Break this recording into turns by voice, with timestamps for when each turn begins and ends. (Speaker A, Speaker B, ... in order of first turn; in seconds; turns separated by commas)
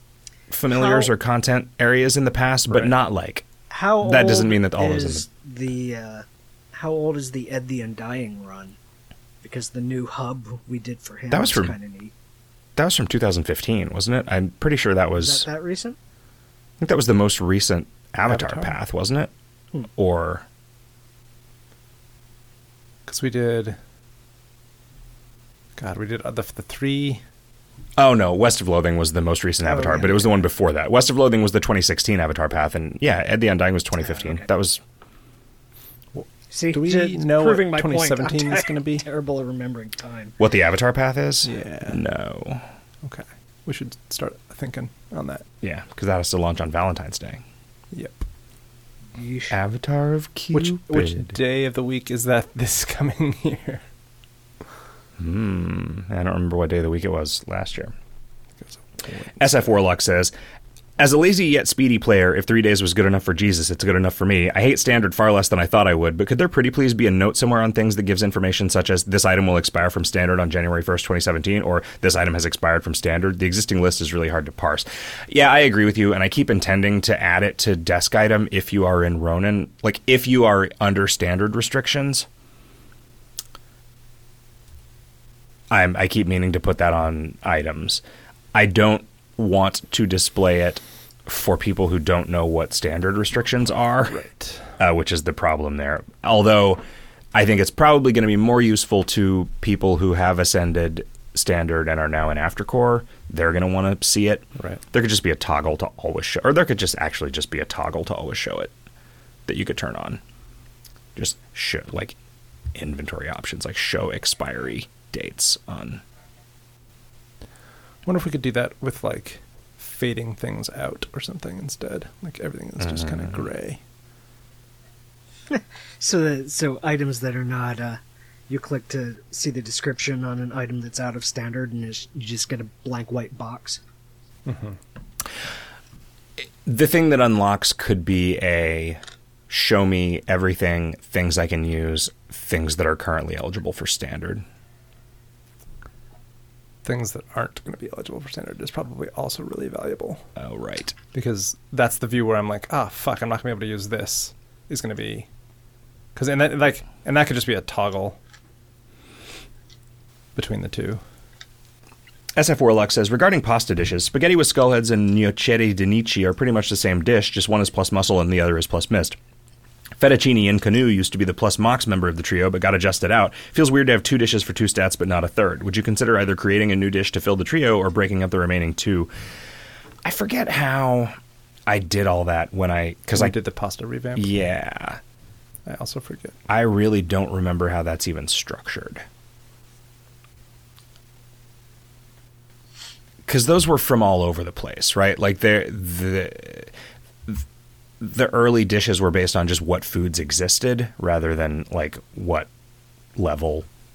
Speaker A: 0.5-5.2, Speaker B: 0.7-1.1, Speaker B: 3.7-8.8, Speaker B: 9.4-12.1, Speaker A: 11.3-11.7, Speaker A: 12.8-15.5, Speaker B: 15.2-16.0, Speaker A: 16.8-19.3, Speaker C: 18.3-18.7, Speaker A: 19.9-20.4, Speaker C: 23.1-23.8, Speaker C: 25.8-27.2, Speaker A: 28.0-34.8, Speaker B: 29.8-30.2, Speaker B: 34.0-34.4, Speaker C: 36.1-39.0, Speaker B: 36.5-40.4, Speaker A: 40.4-42.6, Speaker C: 41.4-42.0, Speaker C: 43.0-45.5, Speaker A: 45.6-47.4, Speaker C: 47.9-48.2, Speaker B: 49.1-49.5, Speaker A: 49.5-51.4, Speaker C: 50.5-53.8, Speaker A: 55.2-57.9, Speaker C: 58.6-59.4, Speaker A: 59.4-60.3, Speaker A: 61.0-82.3, Speaker A: 85.7-88.0, Speaker A: 88.5-94.2, Speaker C: 94.1-94.7, Speaker A: 94.8-96.8, Speaker A: 97.3-108.7, Speaker A: 109.5-110.2, Speaker A: 111.2-112.1, Speaker A: 112.7-116.0, Speaker C: 118.0-123.8, Speaker A: 122.8-123.4, Speaker B: 125.5-133.8, Speaker C: 134.4-134.8, Speaker A: 136.6-144.4, Speaker C: 146.8-150.2, Speaker A: 150.3-150.9, Speaker C: 151.1-155.3, Speaker C: 156.1-158.2, Speaker C: 160.3-161.0, Speaker A: 162.3-169.2, Speaker A: 170.0-179.1, Speaker A: 180.0-181.2, Speaker A: 181.7-183.3, Speaker C: 183.1-184.3, Speaker A: 184.2-185.0, Speaker C: 185.7-186.4, Speaker A: 186.5-189.0, Speaker A: 193.2-196.7, Speaker A: 198.0-202.5, Speaker A: 203.2-203.7